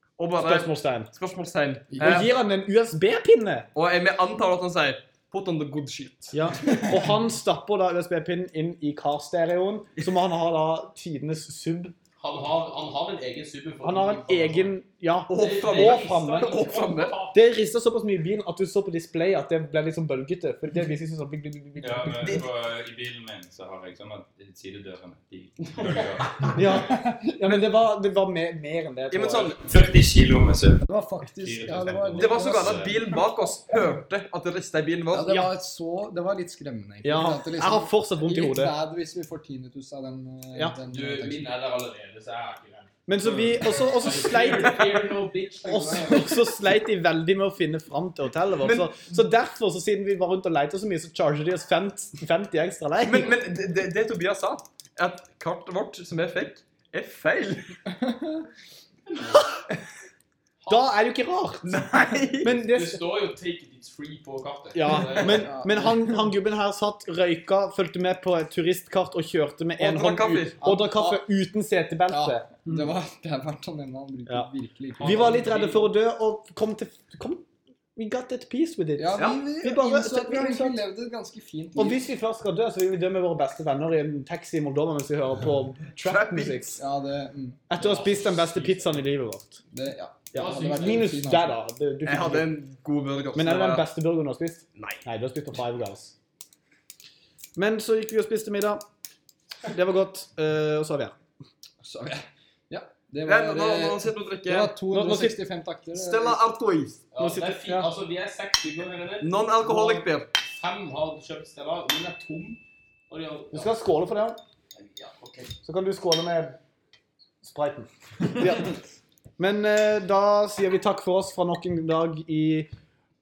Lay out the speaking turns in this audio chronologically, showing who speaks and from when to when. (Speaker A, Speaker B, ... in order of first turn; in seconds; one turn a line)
Speaker A: 0.2-2.3
Speaker B: 0.4-1.1
Speaker B: 2.0-3.7
Speaker A: 3.7-6.4
Speaker B: 6.3-11.9
Speaker C: 12.2-14.7
Speaker B: 13.8-16.6
Speaker A: 15.3-17.2
Speaker C: 15.4-17.4
Speaker B: 17.3-22.4
Speaker D: 21.8-26.8
Speaker B: 26.6-29.5
Speaker A: 27.5-27.7
Speaker A: 29.1-29.6
Speaker D: 29.6-33.0
Speaker E: 30.9-32.7
Speaker A: 32.2-35.5
Speaker E: 35.1-41.5
Speaker B: 37.0-38.7
Speaker C: 40.9-42.9
Speaker B: 43.1-53.4
Speaker C: 43.8-46.3
Speaker E: 45.7-46.3
Speaker A: 48.6-49.1
Speaker A: 53.0-57.8
Speaker C: 60.6-60.9
Speaker B: 60.7-61.8
Speaker A: 61.6-62.5
Speaker B: 62.4-63.0
Speaker C: 62.6-65.5
Speaker B: 64.7-72.9
Speaker E: 65.4-66.3
Speaker A: 69.8-70.6
Speaker E: 70.6-71.2
Speaker E: 72.1-75.4
Speaker C: 75.0-75.9
Speaker B: 75.0-77.5
Speaker B: 78.0-80.8
Speaker E: 79.0-82.1
Speaker A: 79.2-79.4
Speaker B: 81.8-86.8
Speaker A: 86.0-86.8
Speaker E: 86.8-87.6
Speaker B: 87.7-89.6
Speaker C: 87.7-89.0
Speaker E: 89.7-91.5
Speaker C: 90.3-91.1
Speaker B: 90.3-92.5
Speaker A: 92.0-93.9
Speaker B: 93.3-96.1
Speaker A: 94.8-95.0
Speaker B: 97.6-98.8
Speaker B: 99.6-101.2
Speaker E: 101.8-106.5
Speaker A: 103.3-104.8
Speaker B: 104.9-105.4
Speaker A: 105.9-107.0
Speaker C: 107.1-109.5
Speaker B: 107.2-107.9
Speaker A: 109.2-110.3
Speaker C: 110.4-113.7
Speaker B: 113.5-114.4
Speaker C: 114.8-115.5
Speaker B: 115.6-116.6
Speaker B: 117.4-118.8
Speaker B: 119.4-122.7